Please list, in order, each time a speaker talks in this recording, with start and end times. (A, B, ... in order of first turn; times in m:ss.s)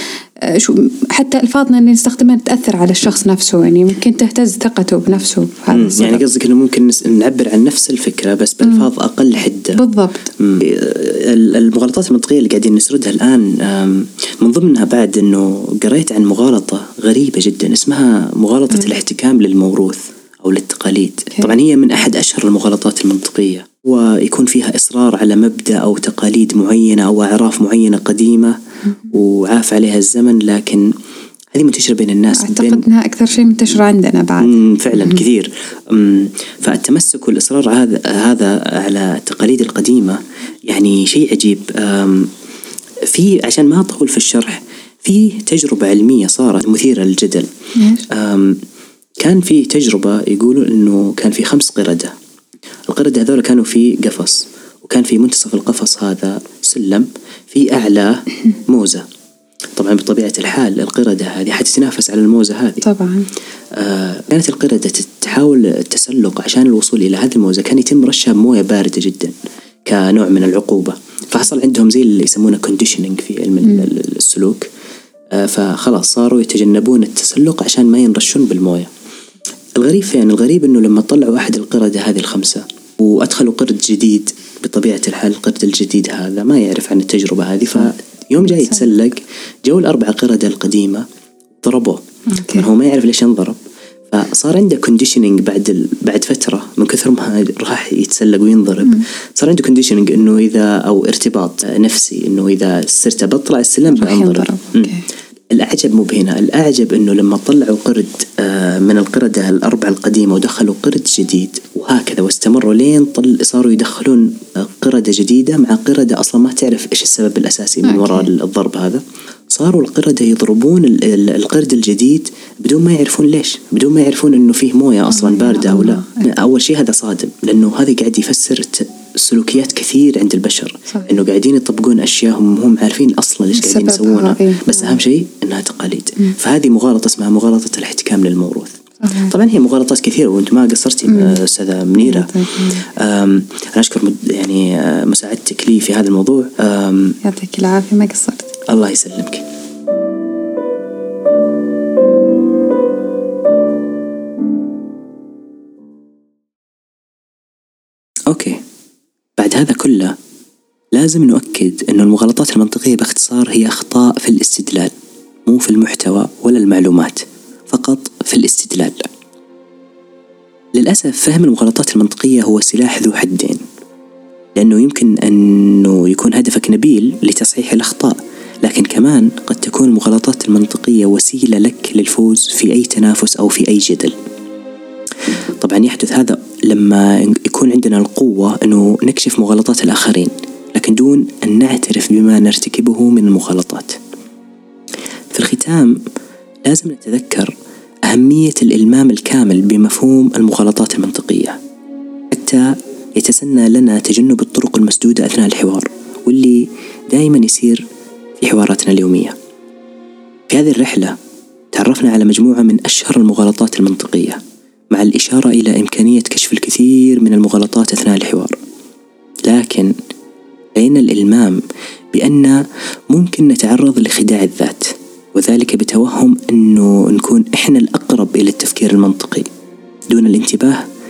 0:00.4-0:06.2 A
0:05.7-0:09.8 B
0:09.8-0:10.3 A
0:10.4-0:28.6 B
0:29.1-0:30.9 B
0:31.5-0:32.8 B
0:32.3-0:35.2 A
0:34.4-0:42.3 B
0:43.1-0:47.5 B
0:47.8-0:48.0 A
0:48.1-0:48.6 B
0:49.2-0:52.1 B
0:52.9-0:59.0 B
0:59.8-1:02.8 B
1:02.8-1:03.3 A
1:03.8-1:09.3 B
1:09.8-1:14.7 B
1:15.3-1:18.9 B
1:19.8-1:31.0 B
1:31.6-1:32.0 B
1:32.3-1:32.7 A
1:32.5-1:33.6 B
1:34.1-1:44.9 B
1:44.0-1:45.0 A
1:45.5-2:18.7 B
1:57.8-1:58.3 A
2:05.2-2:06.0 A
2:13.5-2:15.0 A
2:19.0-2:19.3 A
2:19.2-2:22.3 B
2:21.1-2:21.4 A
2:22.0-2:22.8 A
2:23.0-2:27.1 B
2:27.2-2:28.5 A
2:28.7-2:29.4 B
2:38.3-2:38.6 B
2:39.4-2:40.1 B
2:40.9-2:44.9 B
2:45.5-2:49.0 B
2:50.8-2:53.6 B
2:54.6-3:04.1 B
3:05.6-3:13.9 B
3:15.3-3:16.0 B
3:16.7-3:17.5 B
3:18.1-3:21.6 B
3:22.3-3:27.8 B
3:28.4-3:29.3 B
3:30.5-3:31.1 B
3:31.7-3:34.4 B
3:34.9-3:38.6 B
3:39.5-3:39.9 B
3:40.8-3:41.6 B
3:42.1-3:42.6 B
3:43.1-3:49.5 B
3:50.1-3:50.8 B